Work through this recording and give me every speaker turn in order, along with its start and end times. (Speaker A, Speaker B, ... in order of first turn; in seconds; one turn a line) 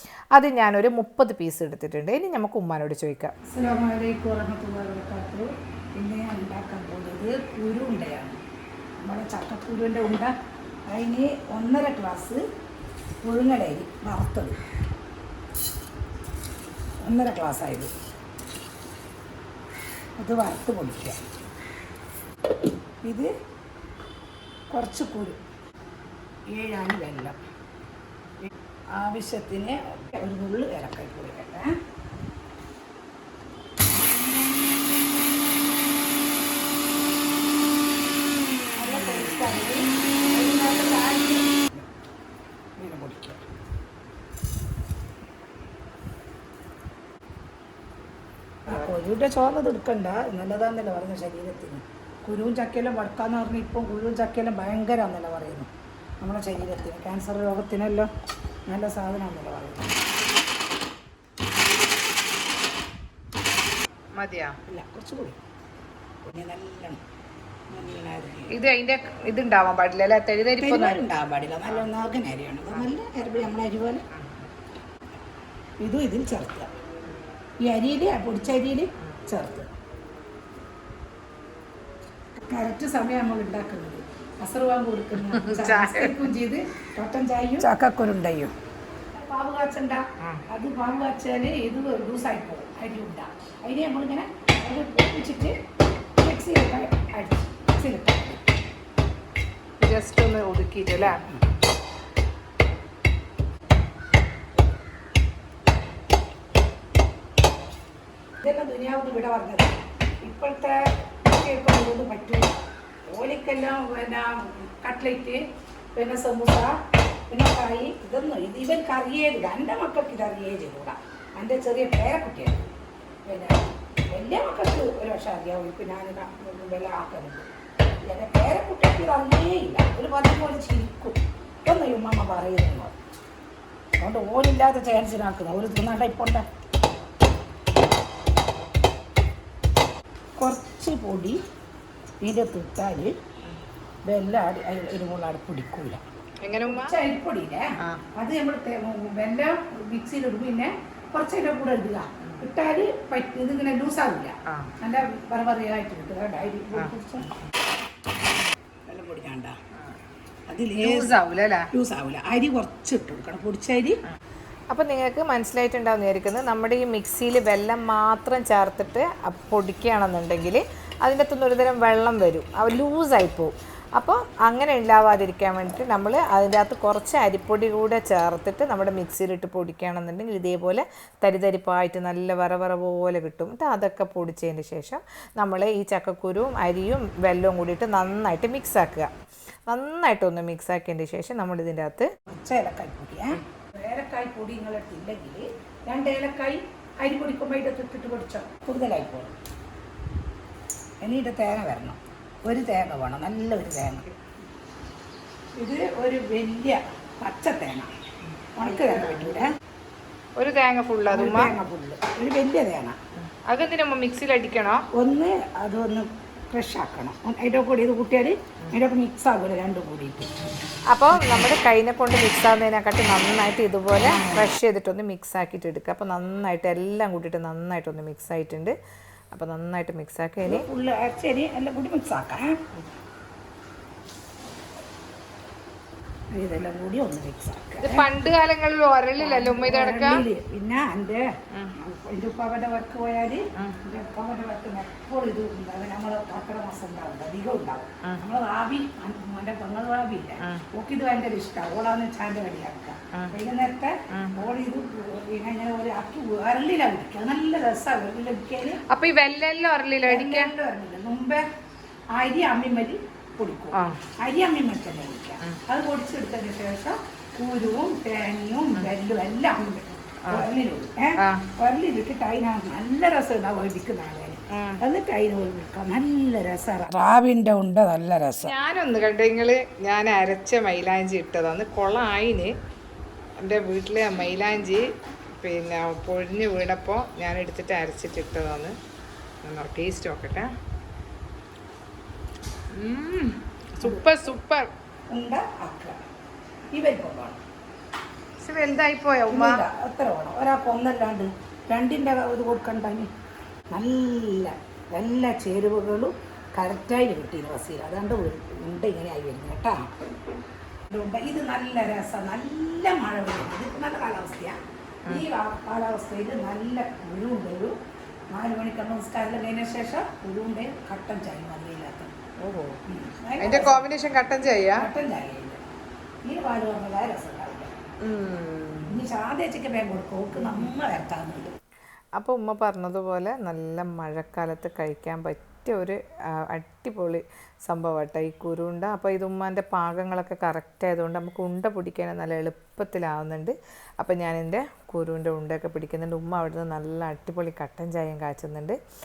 Speaker A: 0.3-3.3
Speaker B: 3.5-8.4
Speaker B: 9.0-10.3
Speaker B: 10.9-12.4
Speaker B: 13.2-14.6
Speaker B: 17.0-17.9
Speaker B: 20.2-21.2
Speaker B: 23.0-23.3
Speaker B: 24.7-25.4
Speaker B: 26.5-27.4
Speaker B: 28.9-31.7
Speaker B: 38.8-41.9
Speaker B: 42.8-43.4
Speaker B: 48.6-55.7
Speaker B: 56.2-58.1
Speaker B: 58.7-59.9
Speaker A: 64.2-64.6
Speaker B: 64.7-65.4
Speaker B: 66.3-67.0
Speaker B: 67.7-68.5
Speaker A: 68.5-71.0
Speaker B: 70.6-74.0
Speaker A: 74.1-74.5
Speaker B: 75.8-76.7
Speaker B: 77.6-79.7
Speaker B: 82.4-88.5
Speaker A: 85.2-86.3
Speaker B: 89.1-95.5
Speaker B: 96.2-98.4
Speaker A: 99.8-101.2
Speaker B: 101.0-101.4
Speaker B: 108.4-112.6
Speaker B: 113.1-115.4
Speaker B: 115.9-116.7
Speaker B: 117.3-122.7
Speaker B: 123.3-127.5
Speaker B: 128.1-132.9
Speaker B: 134.0-136.4
Speaker B: 140.4-141.4
Speaker B: 142.2-143.1
Speaker B: 144.1-146.0
Speaker A: 146.4-146.9
Speaker B: 146.6-157.3
Speaker A: 154.5-154.7
Speaker B: 158.9-159.6
Speaker B: 160.5-161.2
Speaker A: 160.8-161.7
Speaker B: 161.7-164.0
Speaker A: 164.7-189.1
Speaker A: 189.7-192.1
Speaker B: 192.3-199.3
Speaker B: 201.0-204.1
Speaker B: 205.6-207.9
Speaker B: 208.6-209.4
Speaker A: 208.6-209.4
Speaker A: 210.4-211.5
Speaker B: 211.1-213.0
Speaker A: 213.2-214.9
Speaker B: 214.9-220.3
Speaker A: 220.9-228.7
Speaker B: 224.0-224.5
Speaker A: 229.3-230.7
Speaker B: 230.5-232.6
Speaker B: 236.3-238.1
Speaker A: 237.8-240.2
Speaker B: 239.2-258.8
Speaker A: 248.0-248.3
Speaker A: 250.4-250.6
Speaker A: 254.1-254.4
Speaker A: 258.9-260.5
Speaker B: 260.1-261.4
Speaker B: 262.1-278.5
Speaker A: 263.7-264.0
Speaker A: 270.2-270.5
Speaker A: 271.2-271.5
Speaker A: 274.5-274.8
Speaker A: 278.4-282.5
Speaker A: 283.4-288.7
Speaker A: 289.4-290.5
Speaker A: 292.7-294.7
Speaker B: 295.1-296.0
Speaker B: 296.7-297.4
Speaker A: 298.4-299.6
Speaker B: 299.3-303.1
Speaker B: 303.7-309.9
Speaker B: 310.9-314.6
Speaker B: 315.1-317.8
Speaker B: 318.3-322.1
Speaker A: 322.4-322.8
Speaker B: 322.9-323.9
Speaker A: 323.4-324.9
Speaker B: 324.7-325.6
Speaker B: 326.2-327.7
Speaker A: 328.0-329.1
Speaker B: 328.9-331.5
Speaker A: 330.4-330.7
Speaker A: 332.2-348.8